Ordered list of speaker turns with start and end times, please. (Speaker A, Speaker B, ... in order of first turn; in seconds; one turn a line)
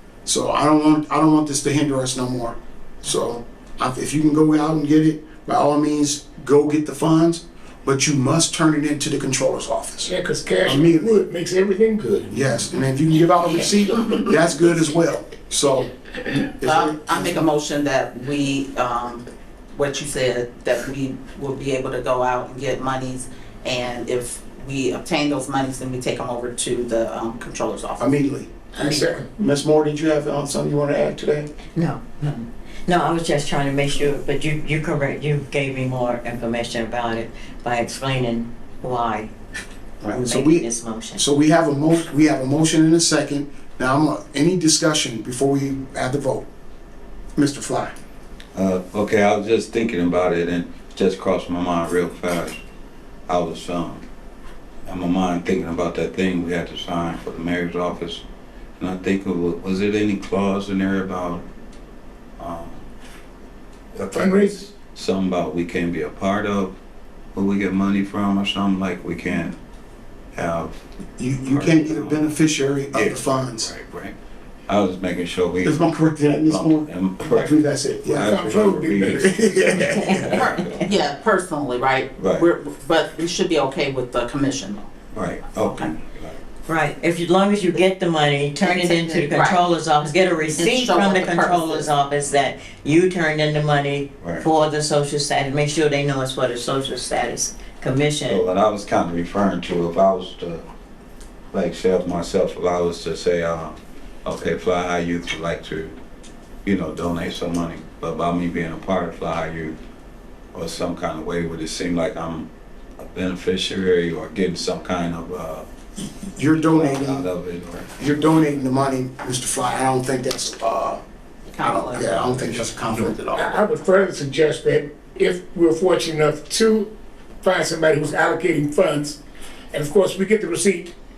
Speaker A: 0.2-10.1
Speaker B: 10.1-12.3
Speaker A: 10.6-11.2
Speaker A: 12.3-17.4
Speaker C: 16.6-28.1
Speaker A: 28.0-31.5
Speaker D: 31.7-39.3
Speaker A: 40.0-46.5
Speaker D: 40.1-41.2
Speaker A: 47.4-47.9
Speaker E: 48.5-52.6
Speaker E: 53.3-54.0
Speaker E: 54.8-58.2
Speaker E: 58.8-61.4
Speaker E: 62.4-62.8
Speaker E: 63.9-66.7
Speaker B: 64.1-64.5
Speaker E: 67.3-69.5
Speaker E: 70.3-70.8
Speaker A: 71.2-73.7
Speaker E: 71.5-72.3
Speaker E: 72.9-74.1
Speaker E: 74.7-80.7
Speaker A: 75.6-80.4
Speaker B: 78.2-79.3
Speaker D: 79.8-80.8
Speaker C: 80.3-84.9
Speaker E: 82.2-82.5
Speaker E: 85.1-86.4
Speaker C: 85.5-85.9
Speaker D: 86.7-98.4
Speaker C: 88.6-89.6
Speaker C: 90.6-91.9
Speaker E: 94.2-94.5
Speaker E: 98.2-100.6
Speaker E: 101.5-106.0
Speaker E: 106.6-109.8
Speaker E: 110.5-115.7
Speaker A: 116.3-117.3
Speaker E: 116.5-118.6
Speaker A: 118.0-121.0
Speaker C: 121.5-122.6
Speaker A: 121.6-123.6
Speaker B: 123.3-129.2
Speaker B: 129.7-130.9